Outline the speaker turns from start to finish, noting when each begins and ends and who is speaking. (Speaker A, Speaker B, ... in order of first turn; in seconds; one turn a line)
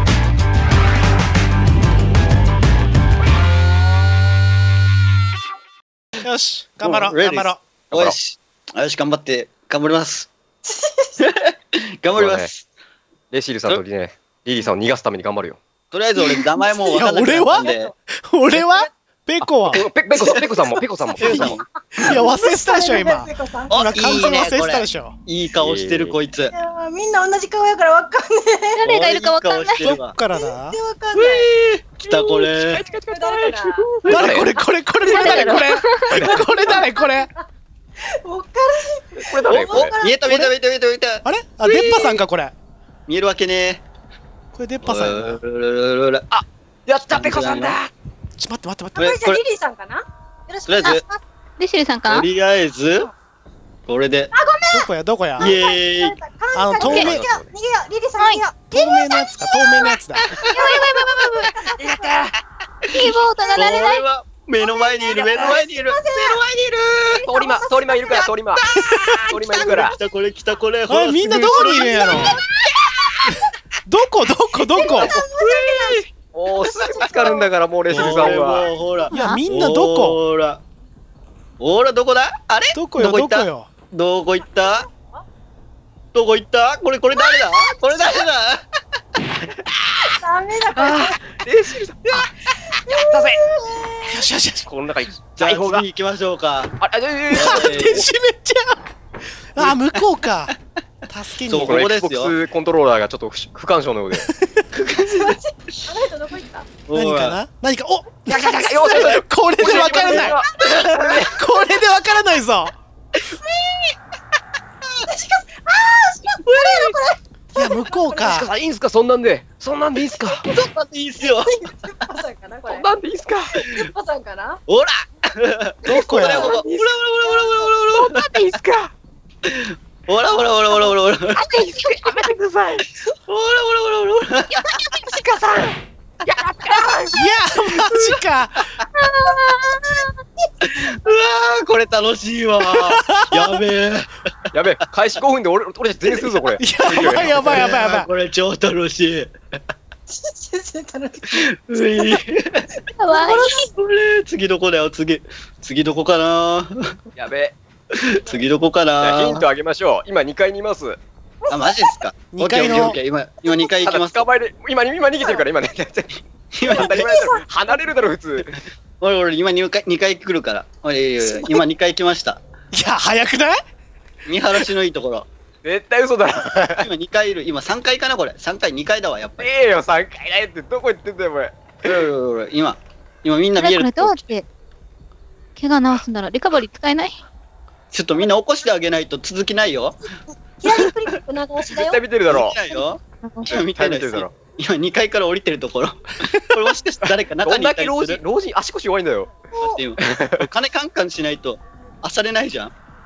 Speaker A: 6.2-7.6
Speaker B: 6.8-10.3
Speaker C: 10.6-11.2
Speaker B: 11.2-12.6
Speaker D: 12.1-12.5
Speaker D: 13.3-15.6
Speaker B: 15.9-17.9
Speaker C: 16.2-17.9
Speaker A: 16.9-17.7
Speaker A: 18.3-19.8
Speaker B: 18.5-18.9
Speaker D: 19.4-21.6
Speaker B: 19.7-20.6
Speaker B: 21.2-22.2
Speaker A: 21.2-25.1
Speaker C: 22.1-24.3
Speaker B: 23.7-26.5
Speaker D: 25.6-26.1
Speaker C: 26.5-28.8
Speaker E: 28.7-29.9
Speaker B: 28.8-30.1
Speaker A: 29.8-30.8
Speaker C: 30.3-31.5
Speaker B: 31.1-32.8
Speaker C: 32.1-33.9
Speaker D: 32.4-34.5
Speaker B: 34.0-34.4
Speaker A: 34.1-37.3
Speaker C: 35.1-37.4
Speaker D: 35.1-36.8
Speaker E: 35.9-36.2
Speaker C: 38.0-40.3
Speaker D: 39.2-39.9
Speaker B: 39.5-42.2
Speaker A: 40.2-40.5
Speaker A: 41.2-42.5
Speaker B: 43.1-43.8
Speaker A: 44.5-45.4
Speaker B: 44.8-46.2
Speaker D: 46.3-47.9
Speaker B: 47.1-47.8
Speaker A: 48.4-49.1
Speaker B: 49.0-49.4
Speaker C: 49.0-51.2
Speaker B: 50.7-51.0
Speaker E: 51.6-52.3
Speaker B: 52.1-53.1
Speaker B: 53.9-54.3
Speaker C: 54.3-62.3
Speaker A: 54.7-55.5
Speaker B: 55.4-56.2
Speaker A: 56.5-57.2
Speaker D: 56.8-57.5
Speaker E: 58.2-58.4
Speaker A: 58.7-60.2
Speaker E: 60.4-61.5
Speaker D: 61.9-62.3
Speaker B: 62.9-67.2
Speaker E: 62.9-64.0
Speaker C: 64.6-66.4
Speaker D: 65.2-65.6
Speaker C: 67.1-68.3
Speaker D: 67.3-70.0
Speaker B: 68.6-72.3
Speaker A: 68.8-69.2
Speaker C: 68.8-70.1
Speaker A: 70.9-72.3
Speaker A: 73.8-75.1
Speaker C: 74.7-79.0
Speaker B: 74.8-76.1
Speaker D: 76.3-78.7
Speaker B: 77.9-80.6
Speaker E: 79.1-79.4
Speaker A: 79.1-80.2
Speaker B: 81.6-84.8
Speaker A: 82.7-83.7
Speaker C: 84.4-85.2
Speaker B: 86.1-88.6
Speaker C: 87.1-88.2
Speaker D: 89.6-90.1
Speaker C: 90.2-91.2
Speaker D: 90.7-92.3
Speaker C: 92.1-94.2
Speaker D: 92.8-93.4
Speaker A: 94.1-94.7
Speaker D: 94.7-95.8
Speaker B: 95.4-96.8
Speaker D: 96.8-98.1
Speaker B: 97.3-98.1
Speaker A: 97.3-98.9
Speaker A: 99.5-100.5
Speaker B: 99.6-99.9
Speaker A: 101.1-101.8
Speaker B: 101.5-102.3
Speaker D: 101.5-104.3
Speaker A: 104.1-104.6
Speaker B: 104.7-105.4
Speaker C: 105.1-106.7
Speaker B: 106.9-107.4
Speaker A: 106.9-110.3
Speaker D: 108.3-111.3
Speaker B: 108.9-111.3
Speaker A: 111.2-112.8
Speaker C: 115.0-118.3
Speaker B: 116.4-117.0
Speaker A: 117.5-118.5
Speaker D: 118.1-120.4
Speaker B: 120.3-121.9
Speaker C: 121.3-122.9
Speaker D: 122.7-123.7
Speaker C: 123.5-124.6
Speaker B: 124.7-128.3
Speaker A: 125.8-126.5
Speaker D: 125.9-126.9
Speaker C: 127.2-127.7
Speaker D: 127.9-128.9
Speaker B: 129.4-131.6
Speaker D: 131.3-132.8
Speaker B: 133.3-134.8
Speaker D: 134.5-137.2
Speaker A: 137.1-138.7
Speaker B: 137.7-138.1
Speaker D: 137.8-138.0
Speaker E: 139.2-139.6
Speaker C: 139.2-141.0
Speaker B: 140.7-144.1
Speaker A: 142.7-143.6
Speaker D: 144.5-147.7
Speaker B: 146.4-149.3
Speaker A: 146.6-148.1
Speaker C: 150.1-152.2
Speaker B: 151.3-156.9
Speaker E: 153.0-153.5
Speaker C: 153.1-153.7
Speaker D: 157.1-157.6
Speaker B: 157.9-159.4
Speaker D: 159.0-161.0
Speaker C: 161.4-161.9
Speaker B: 161.5-164.3
Speaker A: 162.3-163.0
Speaker C: 163.4-163.9
Speaker D: 163.8-168.6
Speaker B: 166.5-167.1
Speaker C: 166.7-168.1
Speaker B: 169.0-172.4
Speaker C: 171.2-171.6
Speaker A: 172.7-173.6
Speaker B: 174.2-175.3
Speaker D: 175.6-176.9
Speaker B: 176.8-179.5
Speaker D: 179.4-182.0
Speaker B: 181.8-184.3
Speaker E: 183.6-184.4
Speaker E: 185.6-187.2
Speaker B: 187.9-190.0
Speaker C: 190.6-192.0
Speaker D: 191.7-192.6
Speaker B: 192.3-198.2
Speaker E: 193.2-193.6
Speaker D: 193.5-194.3
Speaker D: 197.4-199.3
Speaker C: 199.5-199.8
Speaker B: 199.6-202.7
Speaker D: 200.0-200.5